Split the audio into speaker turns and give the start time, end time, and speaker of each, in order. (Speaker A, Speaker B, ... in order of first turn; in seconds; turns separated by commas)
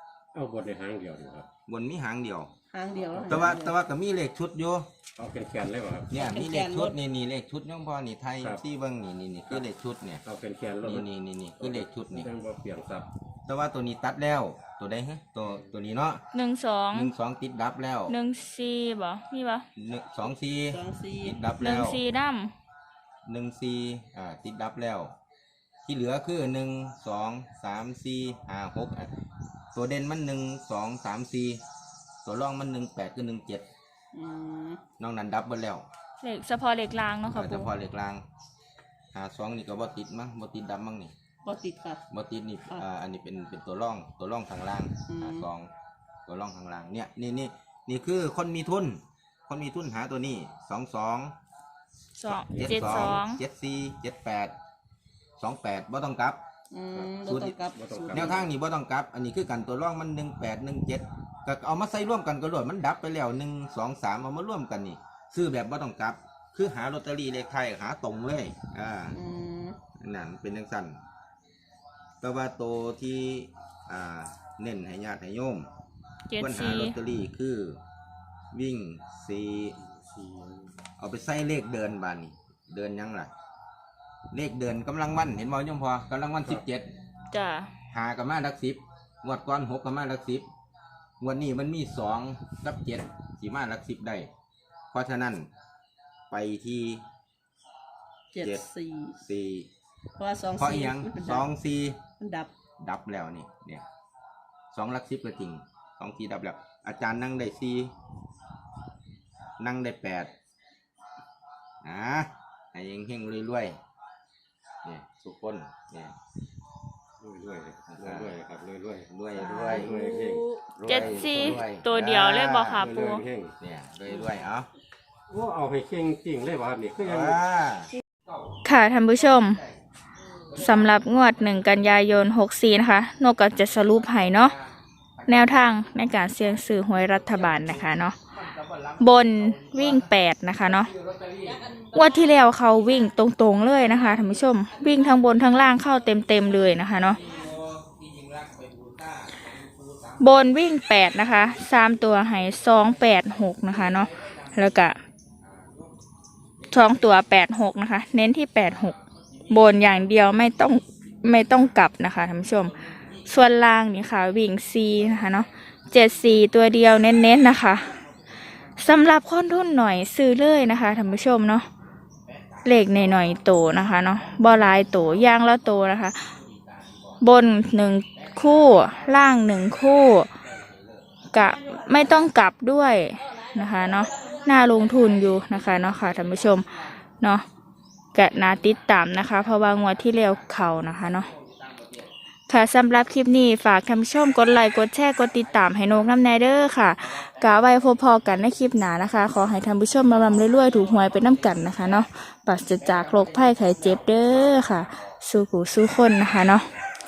Speaker A: 0.3-1.5, Speaker B: 1.7-2.5, Speaker C: 2.7-3.8, Speaker A: 3.0-3.5, Speaker B: 3.3-4.9, Speaker A: 5.2-6.1, Speaker B: 6.1-10.2, Speaker C: 6.1-7.0, Speaker A: 10.2-13.1, Speaker B: 10.8-12.3, Speaker B: 13.5-16.2, Speaker D: 16.3-17.1, Speaker B: 16.9-18.1, Speaker D: 18.1-19.7, Speaker B: 19.8-22.0, Speaker C: 20.7-21.4, Speaker D: 21.6-22.5, Speaker B: 23.2-25.1, Speaker B: 25.9-29.1, Speaker B: 29.7-31.6, Speaker B: 32.2-33.7, Speaker C: 34.1-34.8, Speaker B: 35.0-35.9, Speaker D: 36.2-37.7, Speaker B: 37.3-38.2, Speaker B: 39.1-41.1, Speaker C: 41.5-42.0, Speaker B: 42.1-45.7, Speaker C: 45.1-45.5, Speaker B: 46.3-51.3, Speaker D: 52.2-53.4, Speaker B: 52.3-54.5, Speaker A: 52.6-53.2, Speaker B: 55.4-56.4, Speaker C: 56.7-58.5, Speaker A: 56.9-58.5, Speaker B: 58.1-69.2, Speaker C: 69.1-69.8, Speaker B: 70.0-71.0, Speaker B: 72.2-75.7, Speaker D: 76.3-77.0, Speaker B: 76.4-77.8, Speaker B: 78.5-79.8, Speaker A: 79.9-80.8, Speaker B: 81.0-83.3, Speaker B: 84.3-86.9, Speaker D: 87.3-87.7, Speaker B: 87.9-90.5, Speaker B: 91.2-94.3, Speaker B: 94.9-95.5, Speaker B: 96.3-97.0, Speaker C: 98.3-99.2, Speaker B: 99.2-99.7, Speaker C: 100.2-101.5, Speaker B: 100.6-102.0, Speaker C: 102.2-102.5, Speaker B: 102.8-103.8, Speaker B: 104.7-107.9, Speaker B: 109.6-110.3, Speaker B: 111.8-113.8, Speaker B: 114.8-116.2, Speaker A: 117.2-121.6, Speaker B: 117.9-118.3, Speaker B: 119.1-119.9, Speaker C: 119.4-120.7, Speaker B: 120.8-122.9, Speaker D: 120.8-123.2, Speaker A: 122.8-123.5, Speaker B: 123.6-124.7, Speaker A: 125.3-127.4, Speaker B: 127.0-128.4, Speaker D: 128.6-129.6, Speaker B: 129.3-129.8, Speaker B: 130.4-132.1, Speaker D: 130.6-134.5, Speaker B: 133.5-142.3, Speaker D: 135.3-138.2, Speaker D: 139.0-140.9, Speaker D: 141.9-147.2, Speaker B: 146.9-154.9, Speaker D: 150.2-155.0, Speaker B: 155.4-156.0, Speaker B: 156.6-157.2, Speaker D: 156.7-158.9, Speaker B: 158.7-160.6, Speaker D: 159.5-167.9, Speaker B: 161.3-163.5, Speaker B: 164.9-167.8, Speaker B: 168.3-169.5, Speaker D: 168.8-171.7, Speaker B: 172.2-177.2, Speaker D: 172.6-176.3, Speaker D: 177.2-180.3, Speaker B: 178.0-181.2, Speaker D: 181.3-186.7, Speaker B: 184.7-187.0, Speaker D: 187.2-187.4, Speaker D: 188.1-191.3, Speaker B: 188.2-192.1, Speaker D: 192.5-206.7, Speaker B: 194.3-198.1, Speaker B: 199.3-202.1, Speaker B: 202.7-205.2